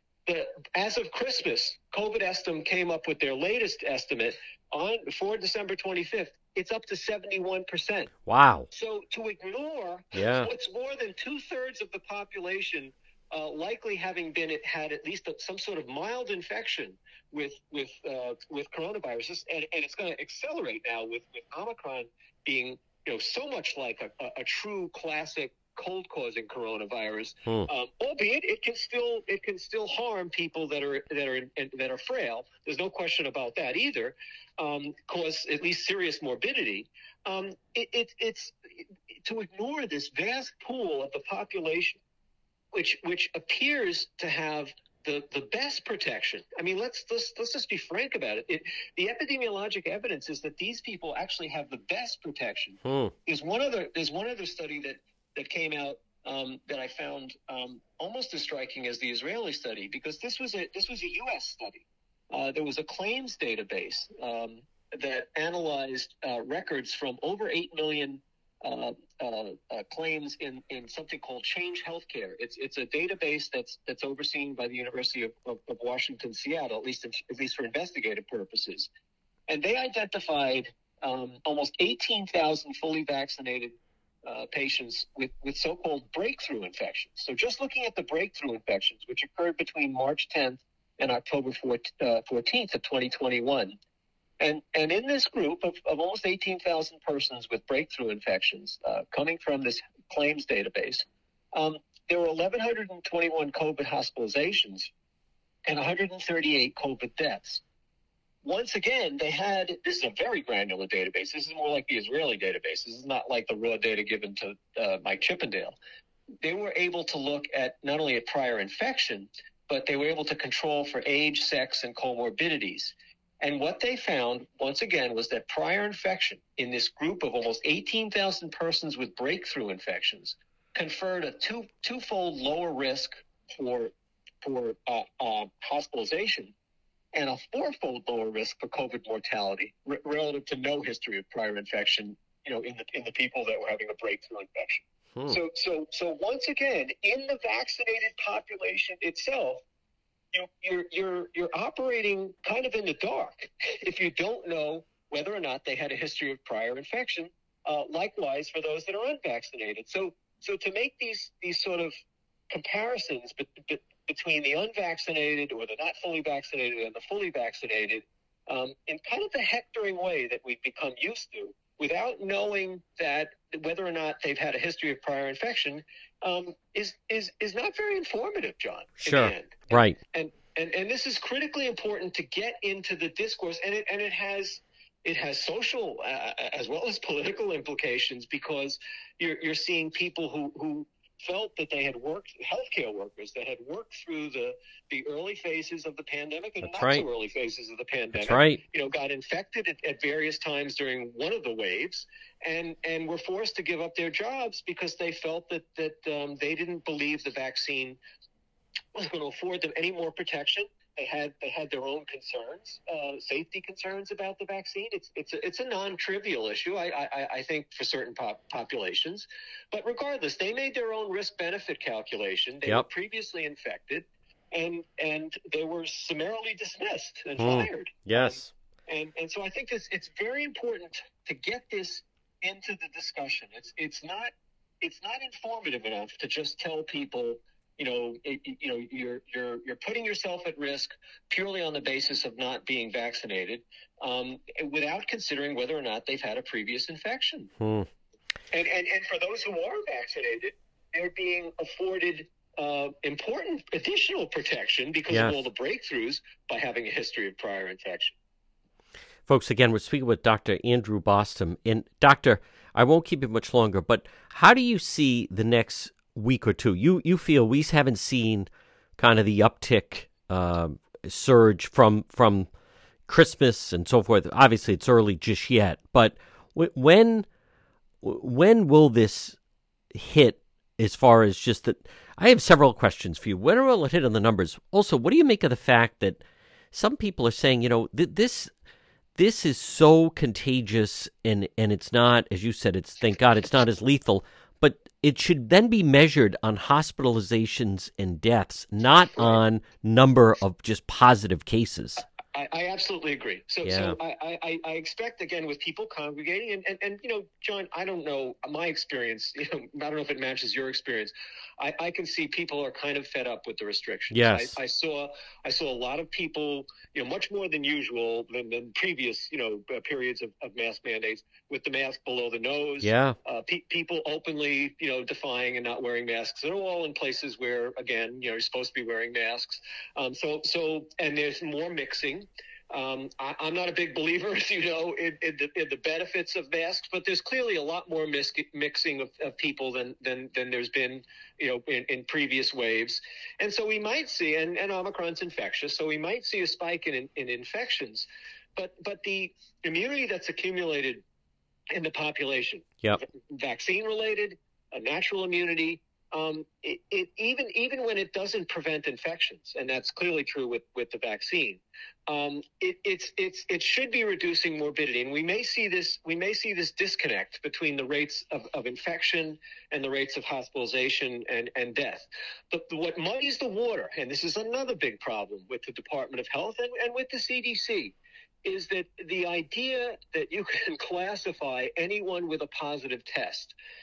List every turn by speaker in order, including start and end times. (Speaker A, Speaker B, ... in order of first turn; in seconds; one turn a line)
Speaker A: 0.3-8.1
Speaker B: 8.3-8.7
Speaker A: 8.7-38.6
Speaker B: 10.1-10.5
Speaker A: 39.2-42.0
Speaker A: 42.7-78.9
Speaker B: 52.9-53.1
Speaker A: 79.5-93.8
Speaker A: 94.4-104.9
Speaker A: 105.7-107.6
Speaker A: 108.4-115.8
Speaker A: 116.4-136.5
Speaker A: 137.1-149.6
Speaker B: 145.2-145.4
Speaker A: 150.3-161.9
Speaker A: 162.5-208.0
Speaker B: 179.0-180.0
Speaker B: 196.6-197.1
Speaker B: 198.2-198.6
Speaker A: 208.9-247.5
Speaker B: 227.4-228.5
Speaker B: 247.6-247.9
Speaker A: 248.5-258.1
Speaker B: 255.1-255.4
Speaker B: 259.3-272.5
Speaker B: 273.1-277.3
Speaker B: 278.0-279.4
Speaker B: 279.9-288.5
Speaker B: 289.2-302.1
Speaker A: 299.1-299.4
Speaker A: 302.3-351.0
Speaker B: 303.6-304.0
Speaker B: 314.1-314.6
Speaker B: 322.8-323.2
Speaker A: 351.7-383.6